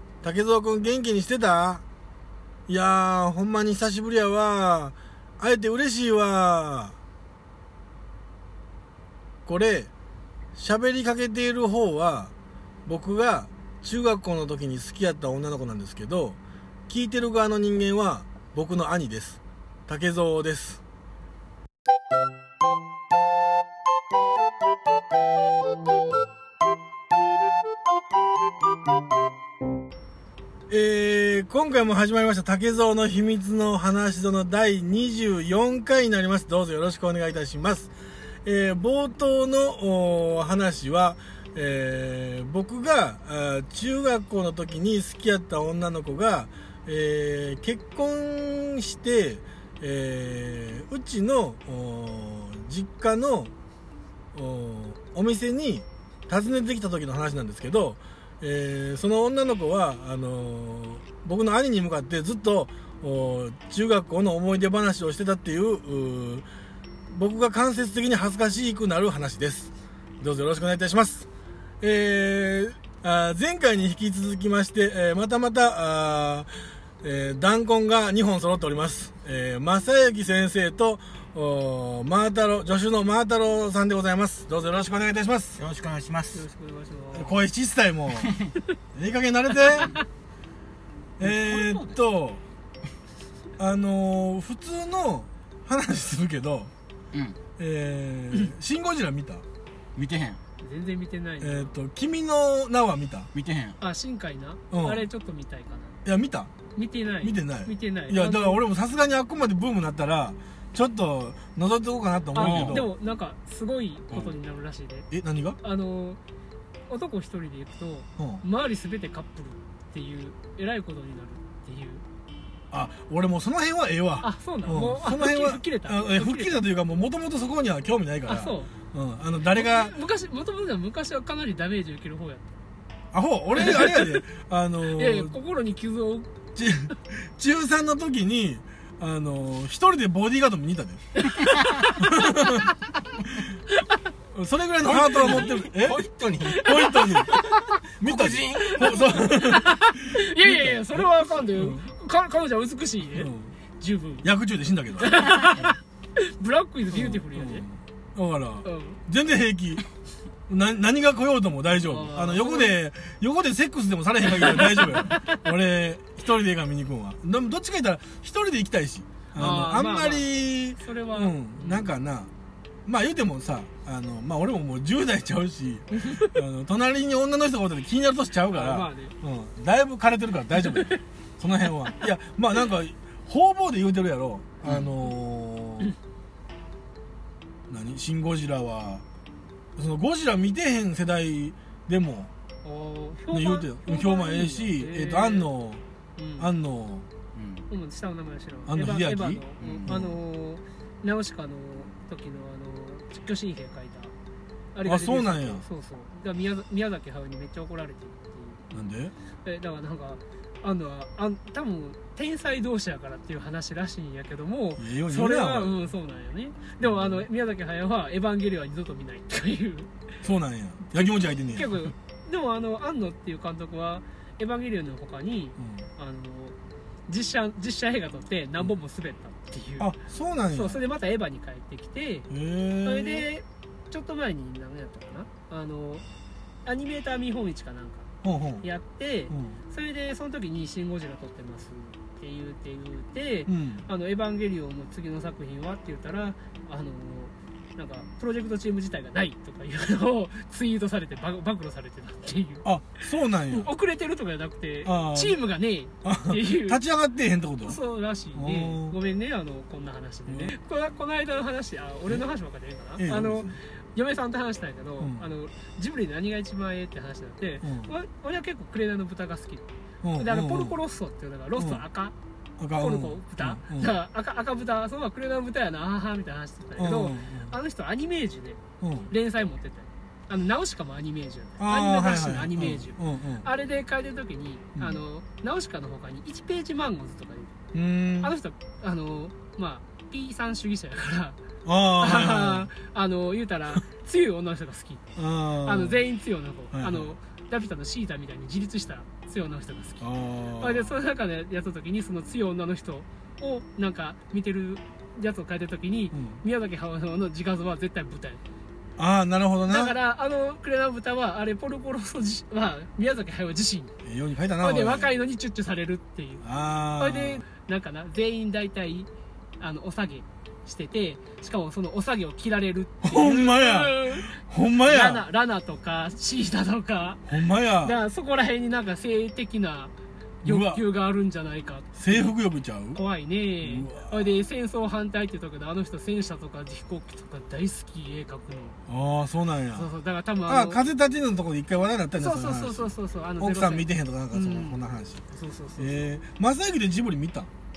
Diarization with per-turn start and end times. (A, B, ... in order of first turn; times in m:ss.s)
0:00.2-0:01.8 A
0:02.7-0:07.0 A
0:09.5-0:09.9 A
0:10.6-0:12.3 A
0:12.9-0:20.8 A
0:30.7-0:37.9 A
0:38.4-0:53.5 A
0:54.3-1:06.5 A
1:07.1-1:11.3 A
1:11.8-1:25.6 A
1:25.6-1:26.4 B
1:26.3-1:27.4 C
1:27.1-1:28.3 A
1:28.2-1:28.5 B
1:28.9-1:29.9 A
1:31.2-1:32.4 A
1:31.2-1:32.0 B
1:33.6-1:36.7 A
1:37.1-1:37.4 B
1:37.6-1:39.4 A
1:40.0-1:40.4 B
1:40.6-1:41.8 C
1:41.4-1:43.3 A
1:43.3-1:43.8 B
1:43.8-1:46.0 C
1:44.7-1:45.1 A
1:46.0-1:46.5 A
1:46.8-1:48.6 C
1:47.2-1:52.9 A
1:52.3-1:55.1 C
1:52.4-1:52.8 B
1:55.1-1:55.6 A
1:55.6-1:56.2 C
1:56.9-2:02.0 C
1:58.2-1:58.4 A
2:02.7-2:09.9 A
2:04.2-2:06.6 C
2:08.3-2:08.7 C
2:09.5-2:12.4 C
2:13.1-2:15.4 A
2:13.5-2:14.2 C
2:14.9-2:16.3 C
2:16.6-2:21.2 A
2:21.2-2:22.8 C
2:22.0-2:22.7 A
2:23.7-2:24.0 C
2:24.3-2:27.4 A
2:24.9-2:26.7 B
2:26.5-2:27.7 C
2:27.3-2:29.0 B
2:28.0-2:31.9 A
2:28.6-2:34.3 C
2:33.0-2:33.5 A
2:34.2-2:35.3 A
2:35.0-2:37.7 C
2:36.9-2:39.8 A
2:38.6-2:39.0 C
2:40.5-2:52.3 A
2:41.8-2:42.8 C
2:44.3-2:45.4 C
2:49.3-2:51.9 C
2:52.9-3:05.9 A
2:56.0-2:56.4 C
2:58.5-2:59.1 C
3:00.7-3:01.0 C
3:04.6-3:04.9 B
3:07.7-3:09.0 A
3:09.8-3:12.3 A
3:12.6-3:15.5 C
3:13.3-3:15.8 A
3:16.2-3:16.5 C
3:16.4-3:17.1 A
3:17.4-3:17.7 B
3:17.7-3:24.1 C
3:18.7-3:20.2 A
3:19.6-3:20.0 B
3:24.7-3:28.6 C
3:24.8-3:25.6 A
3:28.7-3:29.2 A
3:29.4-3:39.9 C
3:34.8-3:35.9 A
3:36.8-3:37.3 A
3:40.2-3:41.9 A
3:41.5-3:46.6 C
3:45.6-3:45.8 A
3:47.1-3:49.9 C
3:49.8-3:50.8 A
3:50.5-3:52.3 C
3:52.3-3:53.3 A
3:52.8-3:56.0 C
3:56.6-3:58.1 C
3:58.2-3:58.6 A
3:58.6-4:12.7 C
3:59.3-3:59.6 A
4:03.5-4:03.9 A
4:12.6-4:13.7 A
4:13.5-4:16.8 C
4:14.8-4:15.4 A
4:16.0-4:17.8 A
4:17.6-4:32.2 C
4:18.3-4:19.0 A
4:23.0-4:23.6 A
4:25.0-4:25.3 A
4:27.6-4:27.9 A
4:30.0-4:30.8 A
4:31.6-4:31.8 A
4:32.6-4:33.9 A
4:32.8-4:47.6 C
4:36.8-4:37.6 A
4:38.8-4:39.1 A
4:41.6-4:43.5 A
4:44.8-4:45.0 A
4:47.7-4:48.3 A
4:48.2-4:51.4 C
4:51.6-4:52.7 A
4:52.0-4:55.0 C
4:55.2-4:56.0 A
4:55.6-5:00.1 C
4:56.7-4:57.2 A
5:00.0-5:01.0 A
5:00.6-5:08.4 C
5:06.1-5:06.4 A
5:09.0-5:10.0 A
5:09.7-5:14.0 C
5:14.0-5:15.1 A
5:14.6-5:16.4 C
5:16.4-5:17.4 A
5:17.0-5:27.3 C
5:23.0-5:25.3 A
5:27.3-5:28.0 A
5:27.8-5:29.9 C
5:30.4-5:30.8 A
5:30.4-5:32.3 C
5:32.0-5:33.0 A
5:32.9-5:38.8 C
5:33.6-5:34.4 A
5:38.9-5:39.9 A
5:39.7-5:40.8 C
5:40.5-5:45.2 A
5:42.2-5:44.8 C
5:45.3-5:46.0 C
5:45.8-5:47.5 A